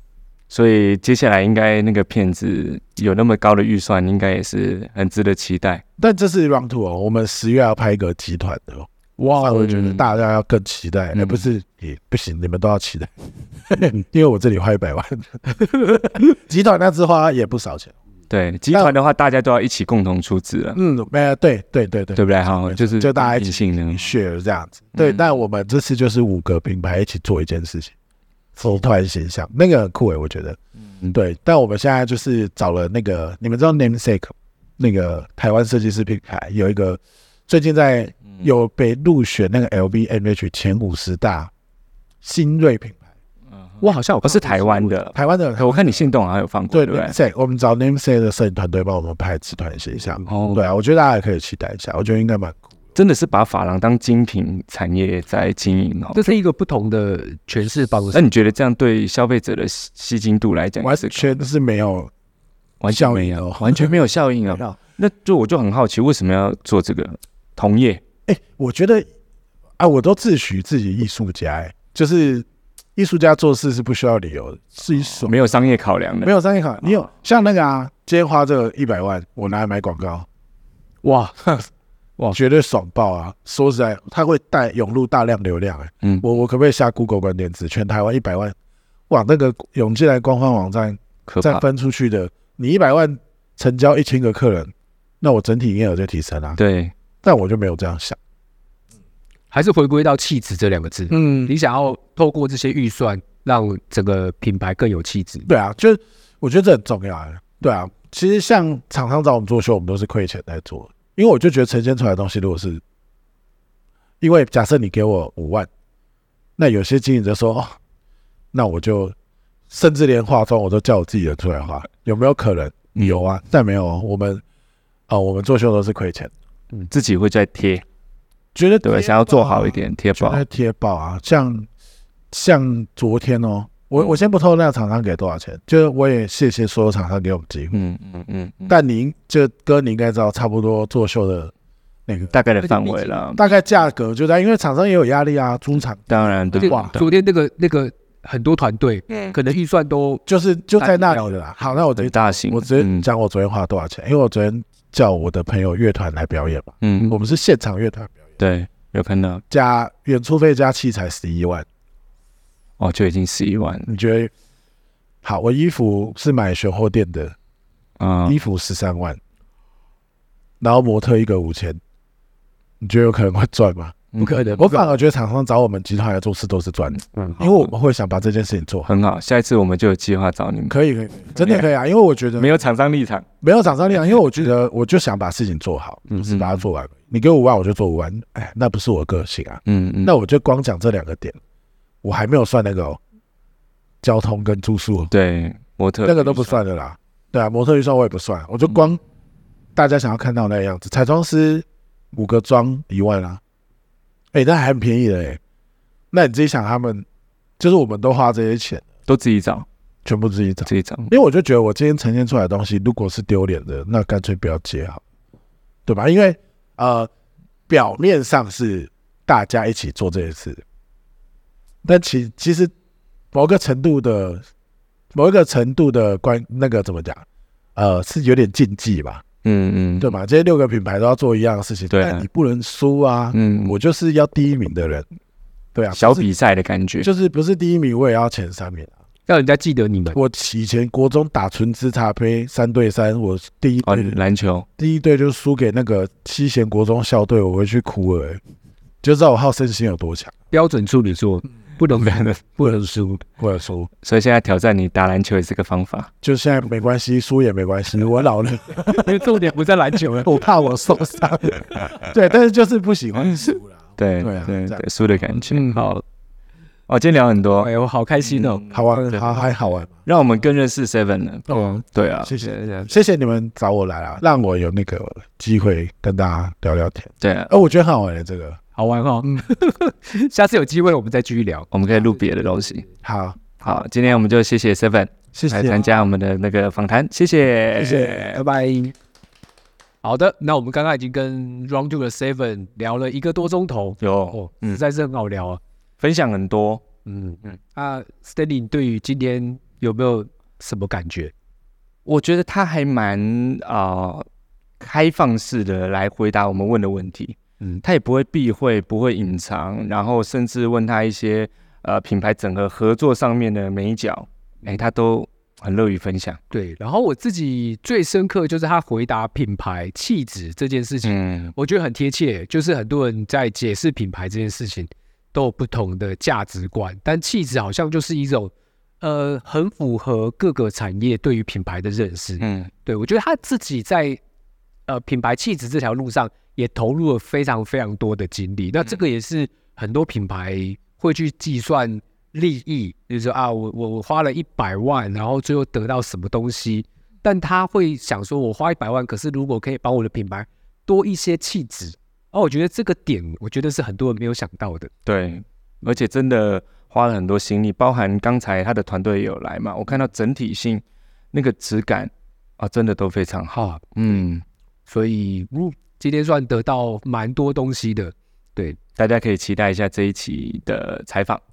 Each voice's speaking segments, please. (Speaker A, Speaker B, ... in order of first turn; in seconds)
Speaker A: 0.5-5.8, 9.5-10.0, 11.1-11.5, 18.3-20.8, 22.1-24.1, 24.9-25.2, 30.8-31.1, 43.8-47.1, 50.2-50.6, 52.9-56.2, 58.1-61.3, 62.8-68.0, 75.2-76.3, 91.3-91.6, 96.6-96.9, 126.9-127.8, 128.8-130.4, 137.7-138.7, 142.3-143.4, 146.1-147.0, 151.9-153.1, 156.8-157.1, 158.4-159.4, 162.8-163.9, 168.0-168.4, 174.1-174.6, 178.8-180.8, 181.3-181.7, 182.4-183.2, 186.2-186.6, 189.7-190.1, 195.1-196.6, 209.1-209.7, 210.7-211.1, 229.4-230.1, 231.9-232.2, 233.3-233.8, 235.9-237.1, 243.8-244.7, 254.0-256.1, 264.0-265.7, 266.9-267.7, 268.2-268.8, 270.1-272.3, 277.2-277.5, 281.7-282.8, 283.6-288.4, 294.0-294.8, 296.0-296.8, 302.0-304.2, 304.8-316.4, 321.0-321.5, 332.4-332.7, 355.1-364.4, 369.0-371.4
Speaker B: 6.0-17.9, 20.7-27.9, 28.6-30.6, 31.1-41.5, 42.2-43.0, 45.1-46.0, 46.7-52.5, 60.8-62.1, 62.9-64.8, 68.2-69.1, 69.8-75.3, 76.2-80.3, 82.3-88.5, 89.1-96.6, 97.2-98.2, 101.1-101.5, 105.5-112.8, 114.2-115.7, 116.6-117.7, 118.5-119.1, 119.7-124.4, 125.1-126.3, 128.5-131.7, 132.3-137.8, 138.7-141.5, 142.1-142.3, 143.3-146.9, 150.2-158.1, 159.5-161.7, 163.8-164.3, 165.2-167.3, 168.2-169.2, 170.6-171.8, 172.8-178.9, 180.7-182.6, 183.4-191.4, 192.0-193.0, 194.0-195.1, 196.0-199.0, 199.7-203.4, 204.3-205.4, 206.1-207.1, 207.6-208.9, 210.0-215.0, 215.8-217.1, 217.7-220.6, 221.8-222.7, 223.3-224.4, 225.1-227.2, 227.8-229.2, 230.0-235.1, 235.7-236.3, 237.0-238.9, 240.1-244.2, 244.8-248.4, 249.0-250.3, 253.4-253.9, 256.2-259.4, 260.1-264.8, 268.7-269.9, 272.2-278.6, 283.0-283.5, 285.3-285.8, 287.8-288.3
Speaker C: 9.2-9.6, 43.8-45.0, 56.1-58.2, 81.0-81.6, 99.5-105.5, 142.6-143.2, 146.6-150.2, 150.8-151.3, 174.2-174.9, 239.3-240.2, 250.5-253.2, 258.9-260.4, 265.5-266.0, 267.6-268.6, 271.5-272.9, 278.8-282.7, 287.8-288.9, 290.0-295.6, 297.0-301.3, 316.5-334.2, 334.9-354.9, 363.5-364.2, 364.9-368.8